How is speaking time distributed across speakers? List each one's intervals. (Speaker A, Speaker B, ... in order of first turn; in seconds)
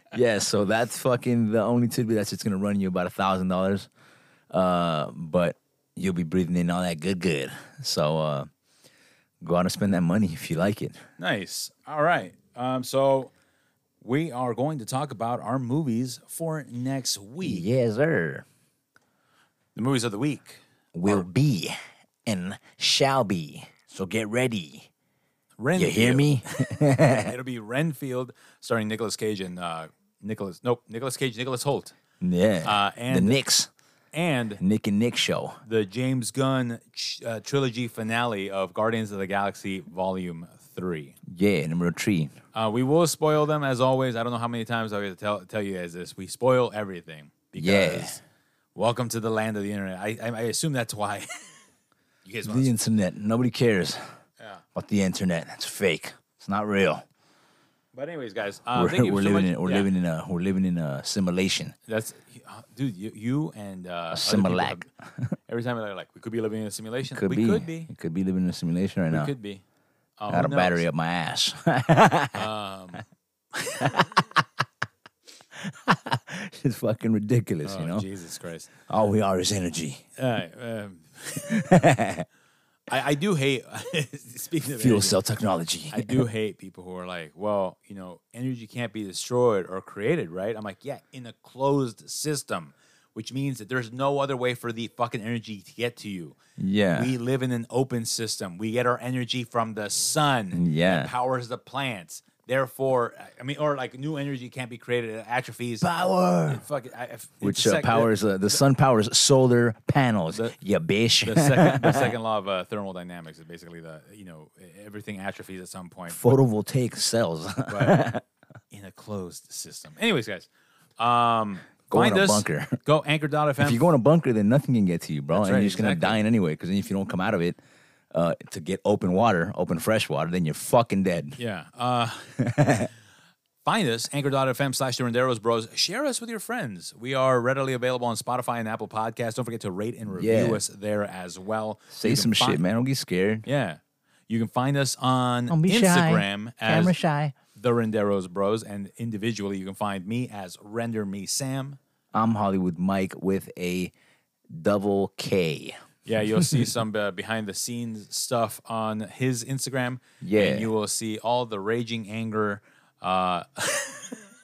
Speaker A: 0.1-3.9, 4.5-8.5, 9.4-11.0, 17.4-18.5, 20.9-21.8, 22.3-24.9, 25.8-27.4, 32.2-33.7, 34.6-35.6, 41.3-42.3, 47.6-48.2, 52.5-54.0, 54.8-57.0, 58.8-61.8, 64.1-65.4, 67.1-69.3, 70.3-72.5, 73.8-74.4, 75.5-78.1, 78.9-80.0, 81.4-82.3, 84.7-86.3, 96.6-97.1, 100.5-101.1, 105.8-106.6, 107.4-112.1, 116.1-118.2, 121.9-122.8, 123.6-127.6, 128.1-131.4, 132.4-132.9, 140.1-140.6, 141.9-143.4, 145.5-147.3, 152.1-153.9, 154.5-155.8, 160.2-160.7
Speaker B: 11.2-13.3, 14.0-17.6, 19.8-21.3, 25.6-32.0, 32.6-33.4, 34.1-34.6, 35.6-41.2, 42.5-48.2, 48.8-51.5, 52.2-52.8, 57.9-59.9, 61.9-64.8, 65.5-67.9, 69.1-69.6, 70.2-70.8, 72.3-74.1, 77.6-78.7, 80.2-81.7, 82.9-85.2, 85.9-96.4, 96.9-105.9, 106.5-108.1, 110.3-110.6, 111.2-116.2, 117.7-118.0, 118.7-120.5, 121.0-123.9, 125.3-126.2, 131.4-132.4, 133.6-142.6, 143.4-146.9, 147.6-151.8, 156.1-164.2